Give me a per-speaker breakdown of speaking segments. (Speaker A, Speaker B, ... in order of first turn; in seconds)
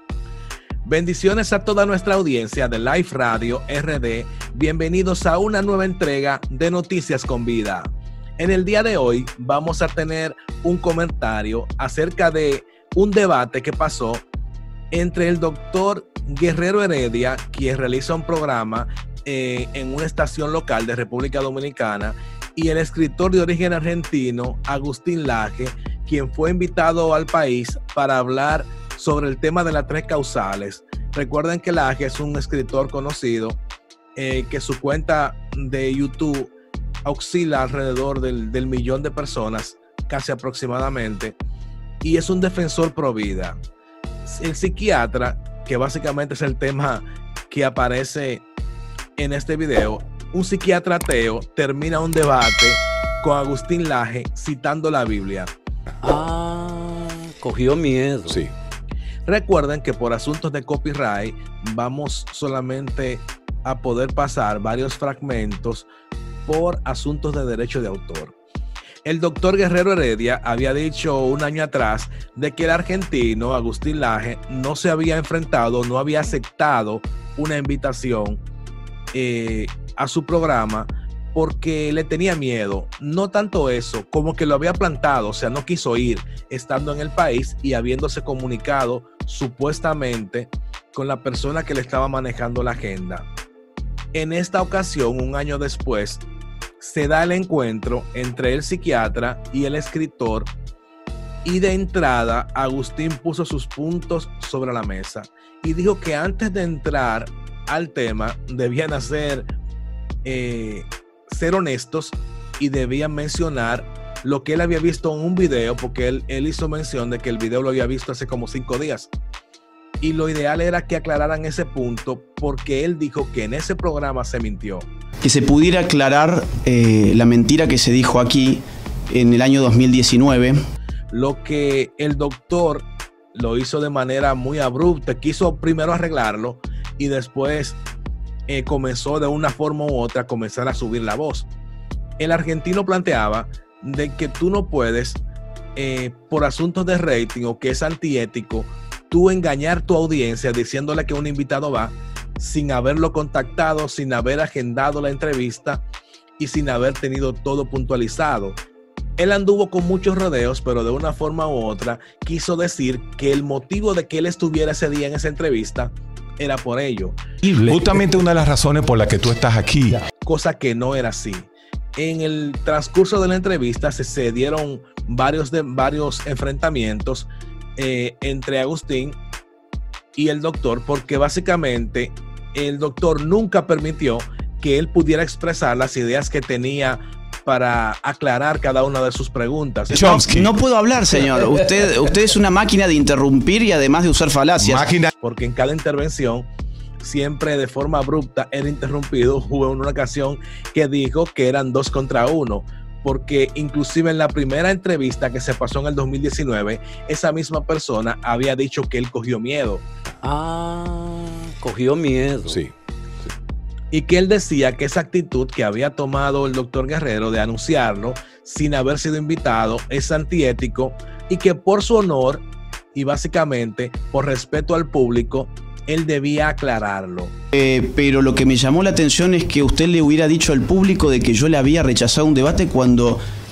Speaker A: 0.8-14.2, 14.9-33.6, 34.1-36.5, 37.0-41.4, 42.0-43.5, 44.2-48.4, 49.1-55.5, 59.2-65.9, 66.4-68.3, 69.0-78.4, 79.1-93.3, 94.1-96.2, 96.8-100.5, 101.4-109.5, 110.2-119.1, 120.0-124.9, 131.1-137.8, 138.5-141.5, 142.2-145.2, 145.8-155.8, 156.4-158.6, 159.2-167.2, 170.2-179.2, 180.1-190.0, 195.2-196.5, 197.0-209.8, 213.9-227.3
Speaker B: 56.0-58.4, 210.2-212.6
Speaker C: 125.2-130.6, 189.9-194.9, 227.5-233.2
Speaker D: 167.6-170.0, 189.9-190.5, 194.6-195.1, 212.5-212.7